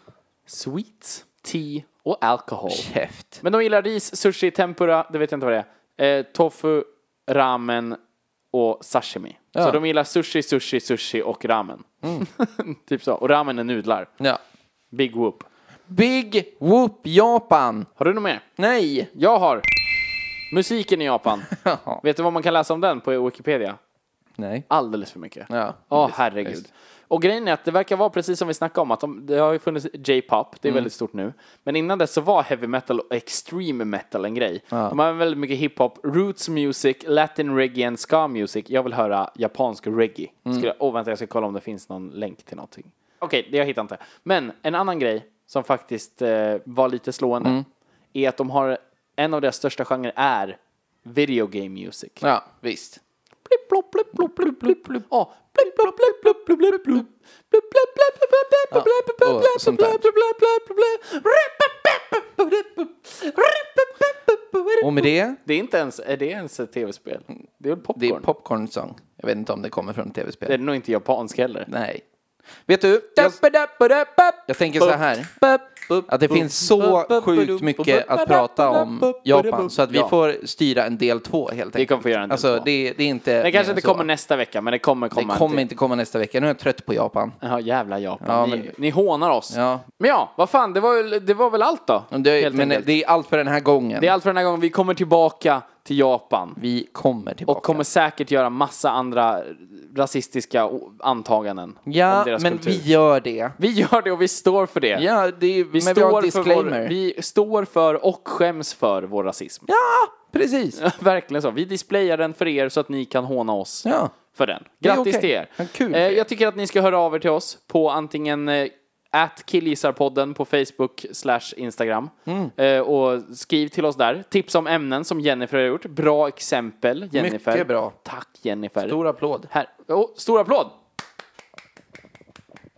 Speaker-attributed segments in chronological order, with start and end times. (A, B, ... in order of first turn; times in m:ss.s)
0:00.5-0:02.9 A
0:02.7-0:03.4 B
0:03.4-0:08.0 A
0:08.5-0:14.1 A
0:09.5-0:09.8 B
0:14.9-0:15.5 A
0:15.9-0:17.9 B
0:18.0-0:18.4 A
0:18.6-0:19.1 B
0:19.1-0:19.7 A
0:20.5-0:21.5 A
0:21.5-0:22.0 B
0:22.0-0:23.8 A
0:24.4-0:24.7 B
0:24.7-0:47.6 A
0:25.5-0:26.6 B
0:48.1-0:52.2 A
0:52.2-0:53.0 B
0:53.5-1:08.3 A
0:54.2-0:55.0 B
0:55.8-0:56.1 B
0:56.7-0:57.0 B
0:58.7-1:00.1 B
1:04.8-1:05.4 B
1:08.0-1:10.6 B
1:10.5-1:11.7 A
1:11.7-1:12.0 B
1:12.7-1:13.4 B
1:13.1-1:20.2 A
1:14.5-1:15.3 B
1:16.1-1:24.1 B
1:21.8-1:22.7 A
1:23.4-1:25.7 A
1:25.1-1:27.4 B
1:27.4-1:32.9 A
1:28.2-1:28.8 B
1:29.5-1:29.9 B
1:32.1-1:34.1 B
1:34.0-1:36.6 A
1:36.6-1:37.9 B
1:37.5-1:42.8 A
1:41.9-1:43.6 B
1:43.6-1:45.1 A
1:45.0-1:46.9 B
1:45.7-1:49.7 A
1:49.7-1:50.8 B
1:50.8-2:09.0 A
1:53.8-1:54.2 B
1:54.8-1:56.2 B
2:02.3-2:02.5 B
2:07.1-2:08.0 B
2:08.8-2:09.5 B
2:09.5-2:10.8 A